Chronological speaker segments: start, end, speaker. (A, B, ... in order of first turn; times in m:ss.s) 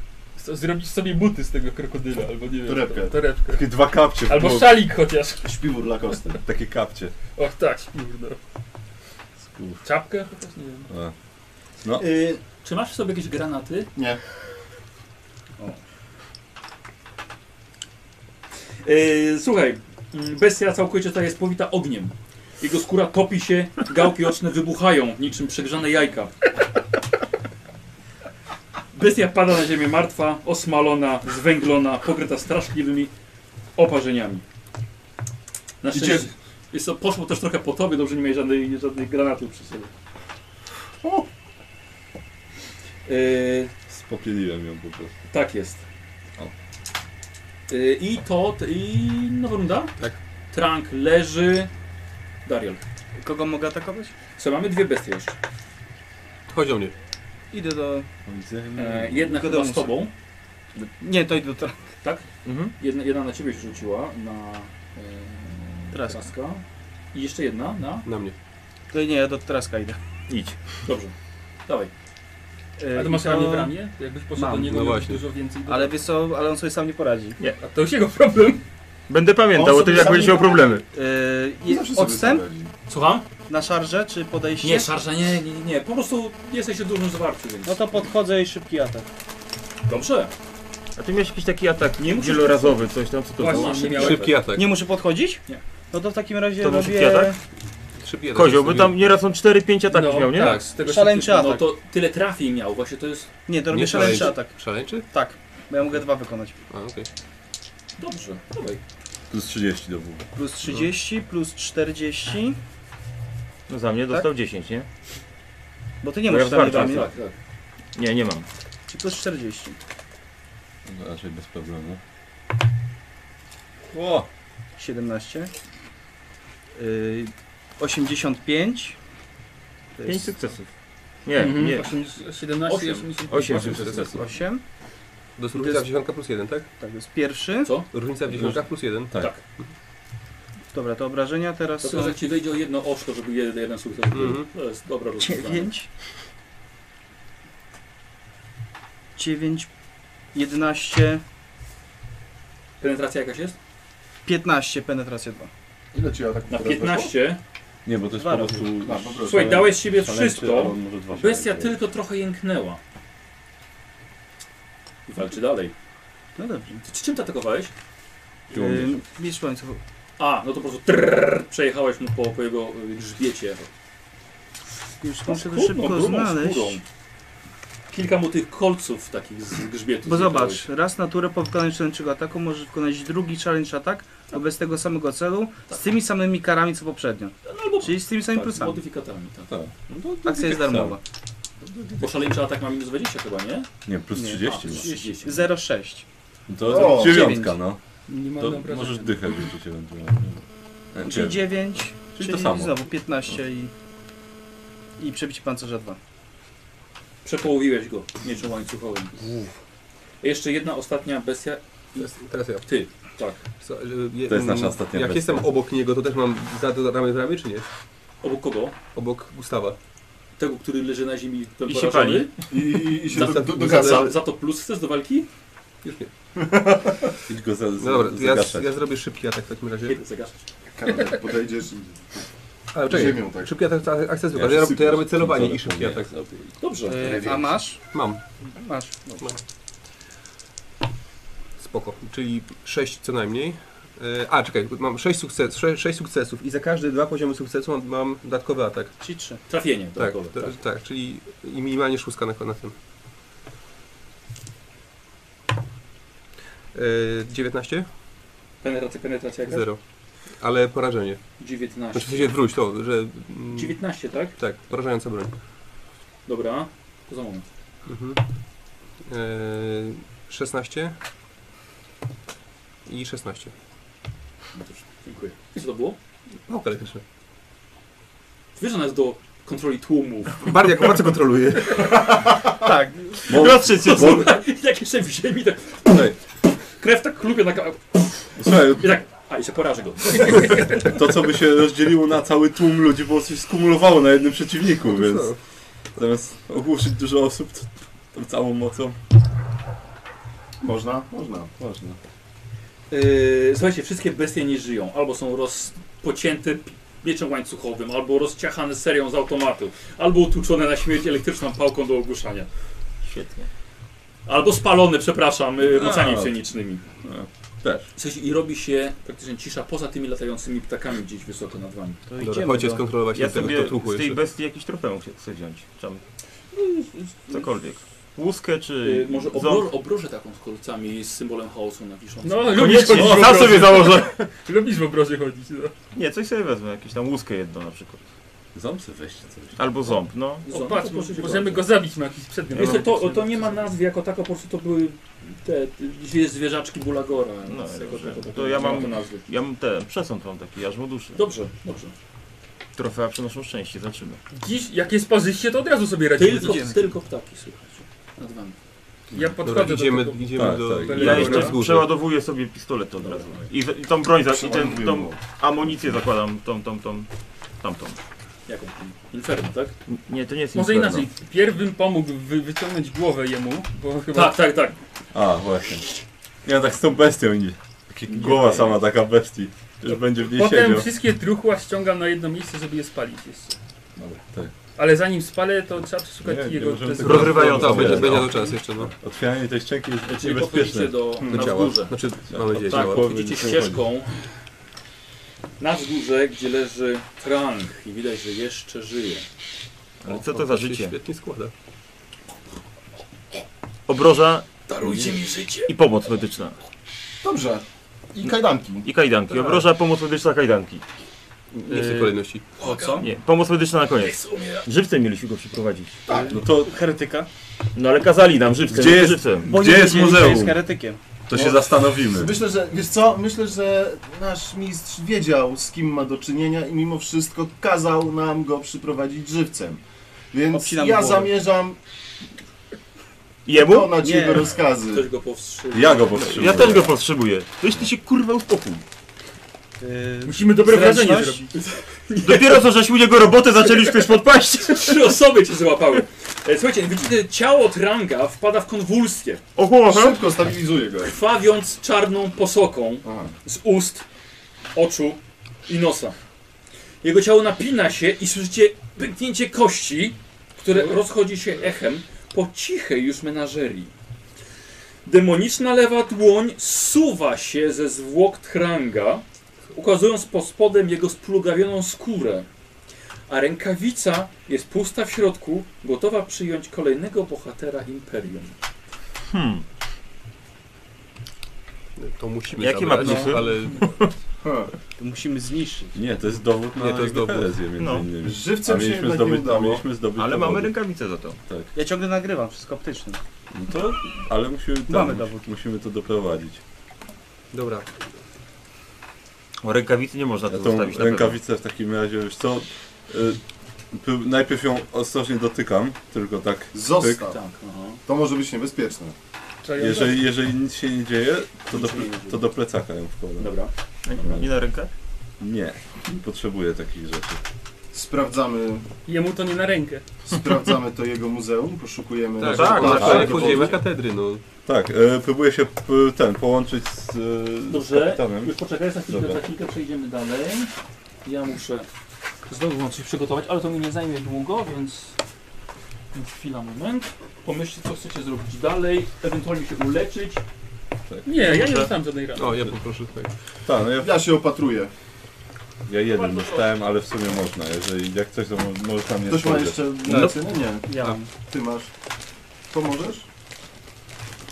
0:00.4-0:05.7 A
0:02.6-0:03.2 B
0:03.5-0:04.8 C
0:05.4-0:06.4 B
0:06.4-0:07.1 C
0:07.4-0:08.4 A
0:09.4-0:09.8 C
0:09.8-0:10.9 A
0:10.9-0:11.1 C
0:12.0-0:13.9 D
0:18.8-0:26.4 D
0:28.9-0:33.1 D
0:33.8-0:34.4 D
0:35.8-0:39.9 D
0:35.9-0:36.3 B
0:43.1-0:43.7 D
0:43.9-0:45.2 C
0:45.3-0:45.8 D
0:47.7-0:50.0 D
0:50.5-0:51.7 D
0:52.4-0:52.8 D
0:53.2-0:54.1 E
0:54.4-0:55.4 D
0:56.5-0:56.9 F
0:57.5-0:58.1 E
0:58.3-0:59.3 C
0:58.8-1:00.1 D
0:59.3-1:00.1 E
1:00.8-1:01.8 E
1:02.4-1:02.7 G
1:02.8-1:08.1 D
1:05.9-1:06.3 E
1:08.1-1:08.4 F
1:08.9-1:10.0 E
1:10.3-1:10.6 G
1:10.8-1:11.1 D
1:12.8-1:13.8 E
1:12.9-1:16.0 A
1:14.4-1:14.7 E
1:14.6-1:15.2 F
1:15.6-1:17.4 E
1:17.6-1:18.6 A
1:19.1-1:20.8 G
1:19.5-1:20.6 B
1:20.0-1:20.4 E
1:20.9-1:22.5 E
1:21.6-1:22.7 B
1:22.9-1:23.3 D
1:23.5-1:24.9 E
1:24.6-1:27.8 D
1:27.7-1:29.1 E
1:29.9-1:30.3 D
1:31.0-1:34.3 G
1:32.0-1:32.9 D
1:33.4-1:34.4 A
1:33.4-1:34.2 D
1:34.0-1:34.7 F
1:34.5-1:37.4 E
1:36.6-1:37.3 G
1:38.0-1:39.0 F
1:38.3-1:40.7 G
1:39.9-1:41.3 A
1:40.8-1:41.7 E
1:40.8-1:43.3 D
1:43.5-1:46.6 E
1:43.7-1:45.1 F
1:46.7-1:47.1 F
1:48.0-1:48.8 D
1:49.3-1:50.2 C
1:50.3-1:52.6 E
1:53.7-1:54.9 G
1:56.0-1:57.1 E
1:56.3-1:57.1 G
1:56.6-1:57.4 D
1:58.0-1:58.5 G
1:58.9-1:59.8 E
2:00.9-2:02.0 C
2:03.9-2:04.3 C
2:04.8-2:05.5 E
2:06.8-2:09.0 E
2:10.0-2:10.4 E
2:10.0-2:10.7 G
2:11.2-2:12.0 G
2:11.3-2:13.9 A
2:12.6-2:13.3 D
2:13.3-2:14.1 G
2:13.5-2:14.2 F
2:14.0-2:14.6 E
2:15.4-2:16.7 F
2:16.8-2:17.7 E
2:17.9-2:19.2 F
2:18.3-2:19.3 C
2:19.1-2:19.4 D
2:20.7-2:22.2 E
2:21.8-2:25.7 D
2:24.1-2:24.5 F
2:25.2-2:25.9 E
2:29.2-2:29.7 E
2:30.3-2:31.2 E
2:32.8-2:33.6 D
2:34.2-2:35.5 E
2:35.9-2:37.1 B
2:36.5-2:37.4 D
2:37.8-2:41.8 C
2:38.1-2:38.7 E
2:38.8-2:39.7 B
2:39.2-2:42.8 D
2:45.1-2:45.7 D
2:46.4-2:46.8 E
2:46.8-2:47.7 D
2:48.5-2:49.8 E
2:48.5-2:49.0 C
2:50.2-2:53.7 D
2:55.0-2:56.8 E
2:55.3-2:56.8 D
2:57.9-3:00.7 D
3:00.1-3:08.8 E
3:07.4-3:09.5 D
3:09.5-3:11.0 C
3:10.2-3:11.0 E
3:11.6-3:12.4 C
3:12.0-3:13.7 D
3:13.9-3:14.9 C
3:14.2-3:16.0 E
3:14.2-3:15.5 D
3:16.5-3:17.8 C
3:16.6-3:17.6 E
3:16.6-3:17.3 B
3:18.1-3:19.4 A
3:18.4-3:22.9 C
3:21.0-3:23.7 E
3:25.0-3:26.0 E
3:27.2-3:29.2 D
3:29.2-3:29.5 F
3:30.2-3:33.4 D
3:32.0-3:32.7 F
3:33.6-3:37.7 F
3:34.3-3:35.5 C
3:38.2-3:38.8 D
3:38.9-3:39.8 F
3:40.4-3:42.3 D
3:41.7-3:42.4 G
3:42.5-3:44.2 B
3:43.0-3:44.1 F
3:43.1-3:45.3 D
3:45.8-3:46.1 F
3:46.4-3:47.0 B
3:47.3-3:48.8 C
3:47.8-3:50.0 F
3:49.9-3:50.5 D
3:50.8-3:52.3 B
3:52.7-3:56.3 F
3:52.8-3:53.5 B
3:54.3-3:56.5 C
3:56.6-3:57.3 D
3:56.8-3:57.8 E
3:57.0-3:57.6 B
3:57.9-3:58.2 F
3:58.4-3:59.2 E
4:01.6-4:09.0 F
4:09.0-4:09.4 E
4:09.5-4:10.6 D
4:10.0-4:12.7 F
4:16.7-4:17.9 F
4:18.6-4:19.7 D
4:19.5-4:21.4 F
4:21.4-4:22.3 D
4:21.9-4:23.8 F
4:23.5-4:24.4 D
4:24.3-4:25.3 F
4:26.3-4:27.4 D
4:27.9-4:28.2 F
4:29.0-4:31.0 F
4:32.9-4:33.5 F
4:34.6-4:36.0 D
4:36.4-4:37.0 F
4:38.6-4:40.5 D
4:40.5-4:43.3 E
4:43.3-4:44.3 C
4:43.3-4:44.3 G
4:43.4-4:46.1 D
4:45.9-4:46.2 C
4:46.6-4:51.0 D
4:48.4-4:48.9 C
4:50.7-4:55.4 C
4:54.9-4:55.4 F
4:56.0-4:59.0 C
5:00.6-5:01.5 B
5:01.6-5:02.0 C
5:02.9-5:12.5 D
5:13.0-5:13.5 G
5:14.3-5:16.8 D
5:15.6-5:16.4 C
5:17.0-5:17.9 C
5:18.0-5:22.0 D
5:22.1-5:23.0 E
5:22.2-5:24.2 F
5:23.1-5:26.0 G
5:26.6-5:27.1 D
5:27.3-5:29.7 G
5:28.8-5:33.0 D
5:32.2-5:35.7 A
5:32.5-5:34.2 G
5:33.0-5:33.5 C
5:35.9-5:38.0 G
5:38.6-5:40.0 C
5:39.6-5:40.4 G
5:40.5-5:41.7 D
5:40.5-5:43.7 A
5:42.5-5:49.3 D
5:47.5-5:51.2 G
5:51.2-5:51.9 D
5:52.8-5:54.2 G
5:54.3-5:56.7 A
5:56.2-5:58.6 D
5:56.4-5:56.8 E
5:59.1-6:01.6 A
5:59.4-6:01.9 F
6:00.3-6:01.3 C
6:00.9-6:07.1 G
6:03.2-6:03.4 D
6:04.3-6:05.2 B
6:07.6-6:08.0 G
6:08.5-6:09.8 D
6:09.9-6:11.1 G
6:10.5-6:14.4 A
6:14.1-6:14.8 D
6:15.1-6:15.9 C
6:16.4-6:20.9 C
6:18.1-6:18.7 G
6:19.9-6:23.6 A
6:24.8-6:27.8 A
6:26.2-6:31.2 C
6:27.0-6:28.4 G
6:27.3-6:28.9 F
6:30.1-6:32.0 D
6:31.3-6:33.1 F
6:32.3-6:33.9 C
6:32.6-6:34.2 D
6:35.6-6:39.3 D
6:40.0-6:41.0 G
6:40.1-6:41.5 F
6:43.9-6:45.1 G
6:44.7-6:45.7 D
6:45.7-6:46.6 G
6:47.2-6:48.9 B
6:48.8-6:50.8 G
6:51.5-6:52.5 F
6:51.7-6:52.1 E
6:52.6-6:53.1 D
6:52.6-6:53.1 E
6:53.0-6:56.0 G
6:54.0-6:54.7 D
6:56.1-6:56.4 B
6:56.1-6:57.3 E
6:56.3-6:56.8 C
6:57.7-6:59.5 G
6:58.7-7:00.6 C
6:58.8-7:01.0 E
7:01.3-7:02.3 C
7:01.3-7:09.8 B
7:10.3-7:11.8 B
7:10.5-7:11.4 E
7:13.5-7:13.9 G
7:13.5-7:15.1 B
7:14.0-7:14.5 E
7:14.9-7:16.6 D
7:15.7-7:17.0 C
7:16.2-7:18.8 G
7:19.8-7:21.6 E
7:20.3-7:21.5 A
7:22.2-7:25.2 G
7:24.7-7:29.4 D
7:29.6-7:30.2 G
7:29.8-7:31.2 B
7:31.0-7:34.1 D
7:33.0-7:33.3 B
7:34.8-7:36.2 D
7:37.0-7:43.9 D
7:45.0-7:52.5 D
7:53.3-7:58.6 D
7:59.3-7:59.6 G
8:02.0-8:04.1 F
8:02.5-8:04.1 G
8:04.4-8:04.7 B
8:05.0-8:06.0 E
8:06.0-8:10.7 C
8:06.8-8:07.6 F
8:07.8-8:08.1 G
8:08.2-8:09.8 B
8:10.2-8:11.4 G
8:11.8-8:13.2 E
8:13.5-8:16.6 C
8:14.9-8:15.4 E
8:17.5-8:17.9 F
8:19.6-8:21.4 G
8:20.5-8:23.4 C
8:23.9-8:27.2 C
8:26.7-8:27.4 B
8:27.2-8:28.0 D
8:28.1-8:29.2 B
8:29.6-8:30.3 A
8:29.8-8:33.5 C
8:31.7-8:32.5 D
8:33.4-8:33.7 D
8:34.1-8:34.9 G
8:34.2-8:34.5 C
8:35.4-8:37.4 C
8:37.9-8:38.9 B
8:39.1-8:40.0 A
8:40.2-8:43.8 B
8:42.4-8:44.4 F
8:42.4-8:43.7 G
8:43.0-8:43.7 C
8:44.6-8:48.6 C
8:47.7-8:50.7 D
8:49.1-8:49.4 C
8:51.2-8:51.9 D
8:52.5-8:55.2 D
8:56.1-9:00.4 D
9:01.1-9:01.6 C
9:01.2-9:02.6 A
9:02.4-9:03.3 F
9:03.6-9:04.1 C
9:04.0-9:04.9 B
9:05.9-9:10.1 C
9:06.2-9:06.6 D
9:09.3-9:11.9 B
9:10.9-9:11.3 E
9:12.7-9:13.3 B